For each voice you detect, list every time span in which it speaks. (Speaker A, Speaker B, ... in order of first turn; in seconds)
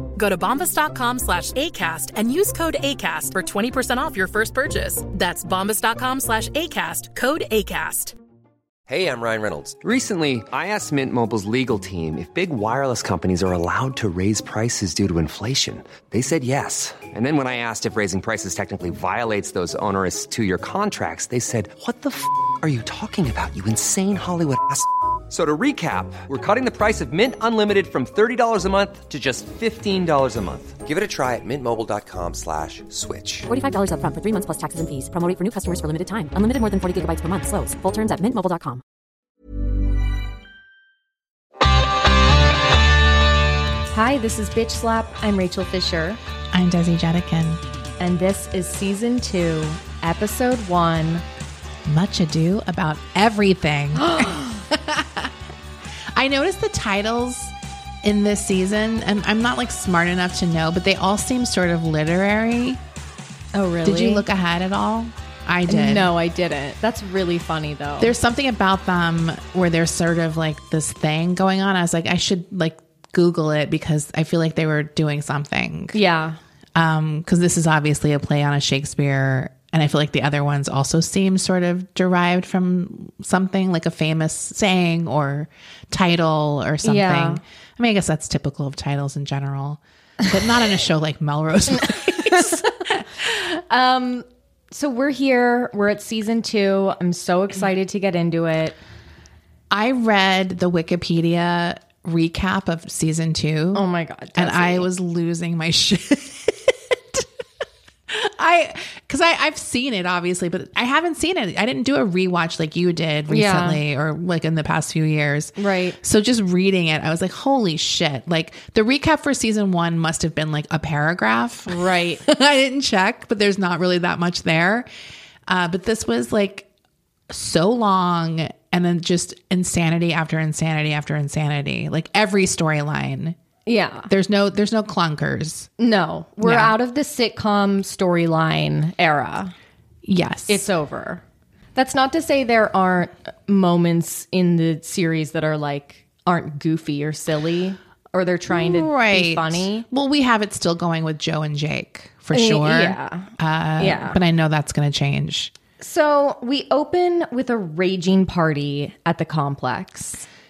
Speaker A: 0.2-8.1
Speaker B: 8.9-33.5
Speaker C: 33.5-38.8
Speaker D: 43.9-46.2, 48.0-51.2, 54.0-54.6, 63.5-64.2, 65.7-68.1, 75.9-76.4, 86.8-87.4, 91.8-92.7, 93.7-98.8, 103.7-104.9, 113.3-113.8, 115.6-116.0, 121.7-122.2, 133.7-134.1, 135.8-139.5, 140.5-141.2, 141.7-149.8, 152.3-154.2, 155.8-160.2
Speaker E: 46.5-47.6, 51.8-55.3, 56.1-62.8, 63.8-66.1, 68.0-76.0, 76.7-93.6, 99.7-103.8, 104.3-107.3, 108.1-124.9, 125.5-126.7, 127.3-133.4, 134.1-135.7, 136.4-136.7, 140.0-140.7, 148.5-155.5